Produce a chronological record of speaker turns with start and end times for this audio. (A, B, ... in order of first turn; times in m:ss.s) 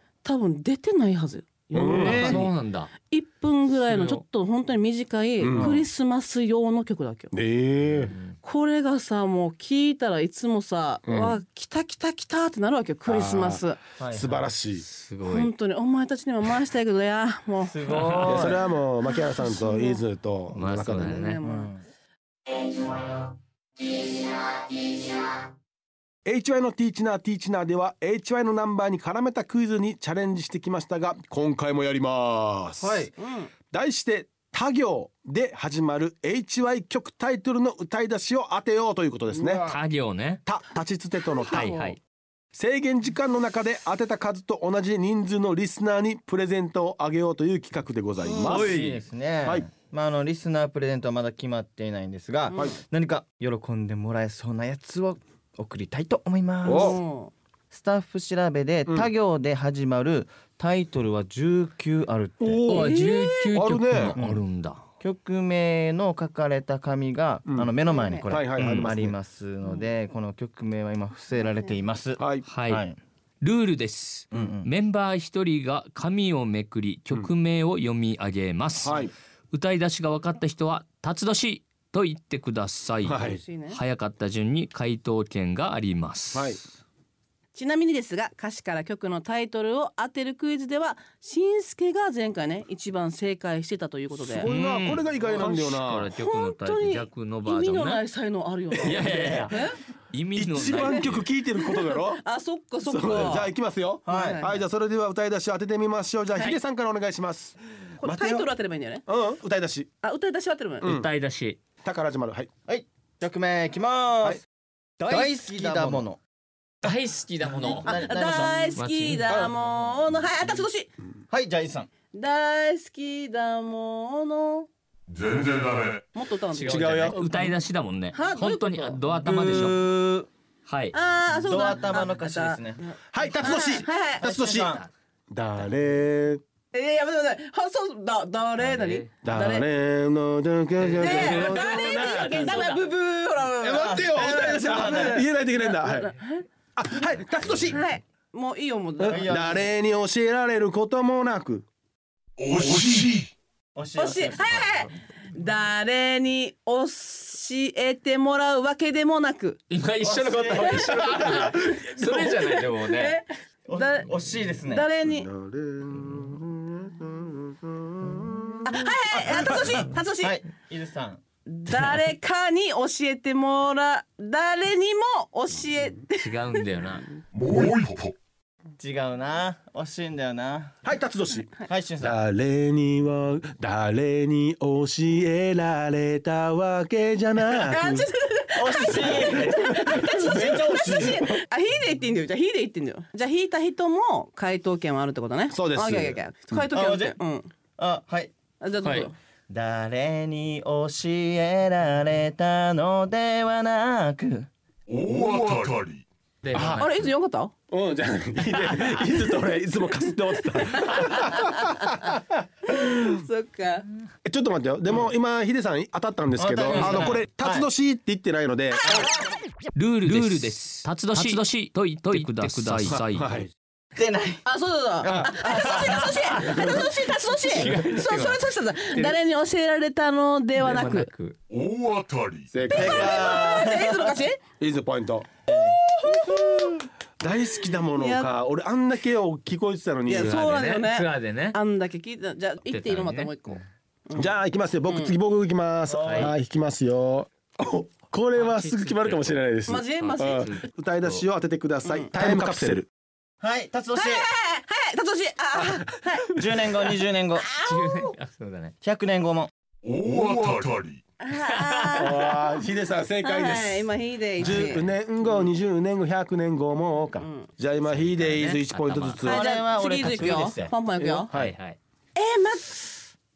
0:00.2-0:02.5 A
0:01.7-0:02.4 B
0:01.8-0:02.9 C
0:02.0-0:02.3 D
0:03.1-0:07.3 A
0:03.8-0:04.2 C
0:05.4-0:05.8 B
0:05.5-0:05.8 D
0:07.3-0:08.1 B
0:07.9-0:08.4 C
0:08.4-0:13.8 A
0:11.0-0:11.4 B
0:13.1-0:14.9 B
0:14.0-0:14.4 D
0:14.8-0:15.5 C
0:15.2-0:18.5 A
0:17.6-0:18.6 D
0:17.9-0:18.4 C
0:18.2-0:21.3 B
0:19.1-0:20.0 A
0:20.5-0:21.4 C
0:21.0-0:21.7 A
0:21.4-0:21.8 D
0:26.2-0:33.1 B
0:32.8-0:33.1 D
0:33.2-0:33.5 A
0:33.7-0:39.7 B
0:39.4-0:39.7 A
0:39.7-0:40.4 C
0:40.5-0:41.8 B
0:41.4-0:42.0 A
0:41.5-0:42.0 C
0:42.5-0:48.8 B
0:48.2-0:57.0 D
0:49.4-0:49.7 B
0:52.5-0:52.8 A
0:52.5-0:52.8 B
0:56.6-0:57.3 A
0:56.6-0:57.0 B
0:57.7-1:02.6 D
1:02.4-1:03.0 B
1:02.7-1:04.8 C
1:02.7-1:03.4 A
1:03.5-1:04.2 B
1:04.1-1:04.4 D
1:05.0-1:13.0 D
1:07.5-1:07.7 B
1:07.9-1:08.3 A
1:08.2-1:09.2 B
1:11.4-1:11.8 A
1:12.2-1:12.5 B
1:12.5-1:12.8 C
1:13.4-1:19.0 C
1:14.3-1:14.7 D
1:18.8-1:19.1 B
1:19.5-1:26.5 C
1:23.0-1:23.4 B
1:23.1-1:23.8 A
1:26.3-1:26.6 B
1:27.5-1:34.5 A
1:34.1-1:36.1 B
1:34.4-1:38.0 C
1:35.2-1:35.5 A
1:36.2-1:39.8 A
1:38.7-1:39.5 B
1:38.8-1:41.3 C
1:40.4-1:42.2 B
1:40.8-1:41.0 A
1:41.6-1:43.5 A
1:42.8-1:48.5 B
1:44.1-1:44.4 D
1:44.1-1:44.6 A
1:48.0-1:49.0 A
1:49.1-1:49.9 B
1:50.0-1:50.9 A
1:50.8-1:51.1 B
1:50.8-1:51.6 C
1:51.8-1:52.5 B
1:52.7-1:54.4 D
1:55.0-1:56.2 D
1:55.1-1:56.0 B
1:56.8-1:58.0 C
1:57.6-1:58.6 D
1:57.6-2:00.9 A
1:58.8-1:59.4 C
1:59.3-1:59.6 B
2:01.3-2:01.9 D
2:02.1-2:04.7 A
2:05.1-2:06.1 E
2:06.1-2:07.2 A
2:06.5-2:09.8 C
2:06.7-2:07.6 B
2:08.1-2:09.1 A
2:09.2-2:10.3 D
2:10.7-2:11.0 C
2:10.9-2:14.3 A
2:11.4-2:12.8 D
2:13.1-2:14.7 B
2:14.2-2:14.8 D
2:15.3-2:16.4 B
2:16.7-2:19.7 A
2:18.6-2:19.1 C
2:19.2-2:22.6 B
2:20.8-2:21.6 D
2:21.0-2:26.5 A
2:22.4-2:22.8 D
2:23.6-2:26.2 B
2:23.8-2:25.2 D
2:26.8-2:27.8 B
2:27.6-2:29.5 A
2:29.0-2:31.7 B
2:29.1-2:29.6 D
2:32.4-2:33.3 E
2:33.8-2:34.8 D
2:34.0-2:39.6 A
2:39.7-2:43.2 C
2:40.0-2:41.0 D
2:40.9-2:45.3 A
2:41.2-2:41.7 B
2:43.7-2:44.9 D
2:45.0-2:49.9 B
2:48.6-2:50.4 A
2:50.2-2:51.2 D
2:51.5-2:56.6 A
2:56.2-2:57.1 C
2:57.3-2:58.2 E
2:58.8-3:00.8 D
3:00.8-3:08.1 B
3:01.7-3:02.2 D
3:07.6-3:17.5 A
3:08.6-3:11.2 D
3:08.9-3:11.4 B
3:15.5-3:16.6 B
3:16.7-3:17.2 D
3:17.8-3:18.3 D
3:18.6-3:19.2 A
3:18.8-3:19.1 C
3:19.5-3:24.5 D
3:24.9-3:26.1 E
3:26.4-3:27.1 C
3:26.5-3:26.8 B
3:26.8-3:27.5 A
3:27.7-3:33.1 B
3:30.7-3:32.1 A
3:32.7-3:33.9 A
3:34.2-3:39.1 B
3:36.4-3:37.7 D
3:38.8-3:39.1 D
3:39.8-3:43.5 C
3:40.1-3:40.5 D
3:41.1-3:41.4 D
3:42.1-3:42.6 D
3:42.7-3:43.5 B
3:44.0-3:44.4 D
3:44.4-3:51.1 A
3:45.0-3:46.2 D
3:45.1-3:47.0 B
3:46.4-3:49.2 C
3:47.6-3:47.8 B
3:50.6-3:51.4 C
3:51.5-3:52.5 E
3:52.5-3:53.5 B
3:52.7-3:54.4 A
3:52.7-3:54.1 D
3:54.6-3:55.3 B
3:55.5-3:55.8 D
3:55.5-3:56.8 A
3:57.2-4:00.4 B
3:57.6-3:58.3 A
4:00.1-4:04.3 A
4:00.1-4:01.6 C
4:02.7-4:03.6 C
4:04.1-4:12.9 B
4:04.9-4:05.2 A
4:05.9-4:06.3 D
4:06.1-4:06.3 C
4:08.4-4:11.2 C
4:09.7-4:10.5 A
4:11.8-4:12.1 A
4:13.4-4:14.2 D
4:14.0-4:16.3 A
4:16.4-4:17.5 D
4:17.4-4:18.1 A
4:17.6-4:18.7 C
4:18.8-4:19.5 D
4:19.8-4:21.0 E
4:21.2-4:22.3 A
4:21.6-4:22.1 C
4:22.0-4:29.5 B
4:23.2-4:25.4 A
4:27.2-4:27.5 A
4:27.9-4:29.3 C
4:29.2-4:30.7 D
4:29.2-4:31.3 A
4:31.0-4:31.5 B
4:31.3-4:31.8 C
4:32.2-4:33.0 A